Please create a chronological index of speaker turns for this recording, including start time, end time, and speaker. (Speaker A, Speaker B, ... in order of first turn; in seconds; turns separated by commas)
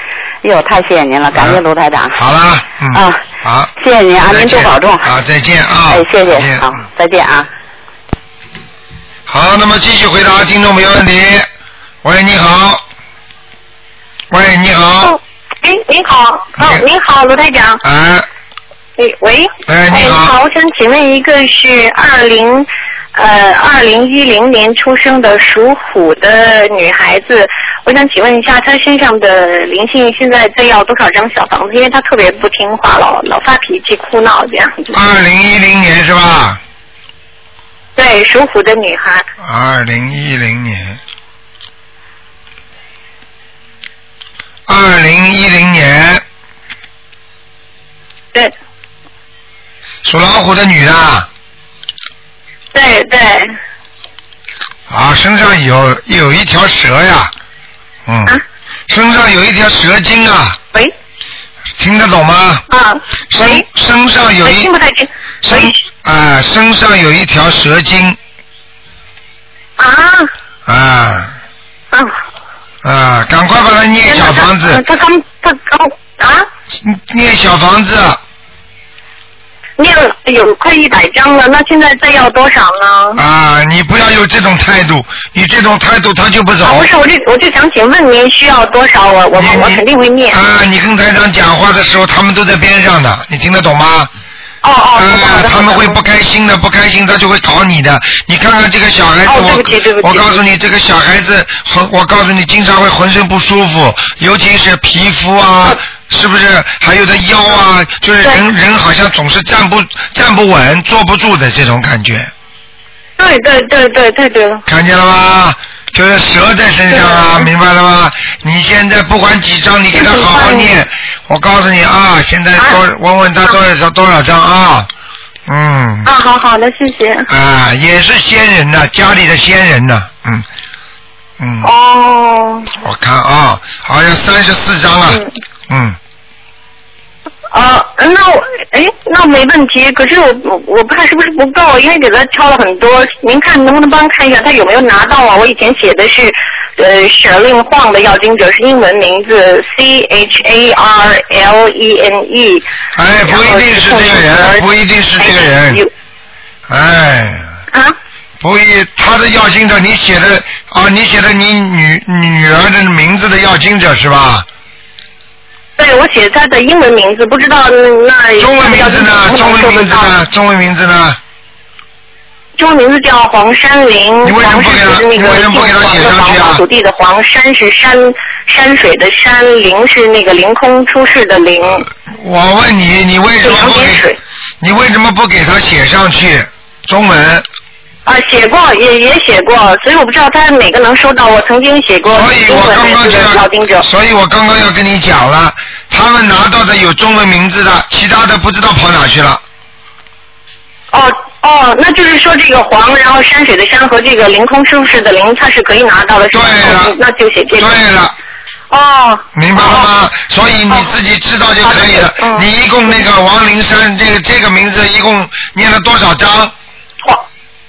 Speaker A: 0.4-2.2, Speaker B: 1.3-1.6, Speaker B: 2.1-3.7, Speaker A: 2.9-3.2, Speaker A: 3.8-5.1, Speaker B: 4.2-6.8, Speaker A: 5.9-7.5, Speaker B: 9.3-11.5, Speaker B: 12.0-12.8, Speaker B: 14.3-15.2, Speaker C: 15.6-17.8, Speaker B: 16.6-16.8, Speaker B: 17.8-18.3, Speaker C: 19.0-35.0, Speaker B: 19.7-20.3, Speaker B: 34.9-36.6, Speaker C: 38.0-39.2, Speaker B: 39.4-41.0, Speaker B: 44.7-46.2, Speaker B: 50.0-51.3, Speaker C: 52.7-53.5, Speaker B: 54.9-57.3, Speaker B: 58.0-58.4, Speaker B: 58.9-60.6, Speaker B: 61.8-62.6, Speaker C: 62.7-63.6, Speaker B: 63.3-64.7, Speaker C: 64.4-65.7, Speaker B: 65.4-68.2, Speaker C: 69.8-70.3, Speaker B: 70.7-71.3, Speaker B: 72.8-74.8, Speaker C: 74.1-76.5, Speaker B: 76.7-78.2, Speaker C: 79.8-83.2, Speaker B: 83.2-86.9, Speaker C: 86.6-90.4, Speaker B: 89.3-94.1, Speaker C: 94.6-96.0, Speaker B: 94.9-112.3, Speaker C: 99.2-100.3, Speaker C: 113.2-114.6, Speaker B: 114.7-124.9, Speaker C: 116.9-117.5, Speaker C: 119.9-120.7, Speaker B: 125.5-126.1, Speaker C: 126.0-127.3, Speaker B: 127.3-130.4, Speaker B: 131.4-131.7, Speaker C: 131.6-132.7, Speaker B: 132.8-136.0, Speaker C: 137.5-152.7, Speaker B: 152.9-155.8, Speaker C: 153.2-154.6, Speaker C: 155.2-155.9, Speaker B: 156.7-157.5, Speaker B: 158.4-164.4, Speaker C: 165.8-170.1, Speaker B: 168.4-171.2, Speaker C: 172.6-181.9, Speaker B: 174.2-176.6, Speaker B: 182.1-184.0, Speaker C: 183.4-184.2, Speaker B: 184.6-187.4, Speaker C: 188.1-193.8, Speaker B: 192.1-199.4, Speaker C: 200.9-207.8, Speaker B: 206.3-206.9, Speaker B: 207.6-208.2, Speaker C: 208.7-209.9, Speaker B: 209.3-216.5, Speaker C: 211.6-212.4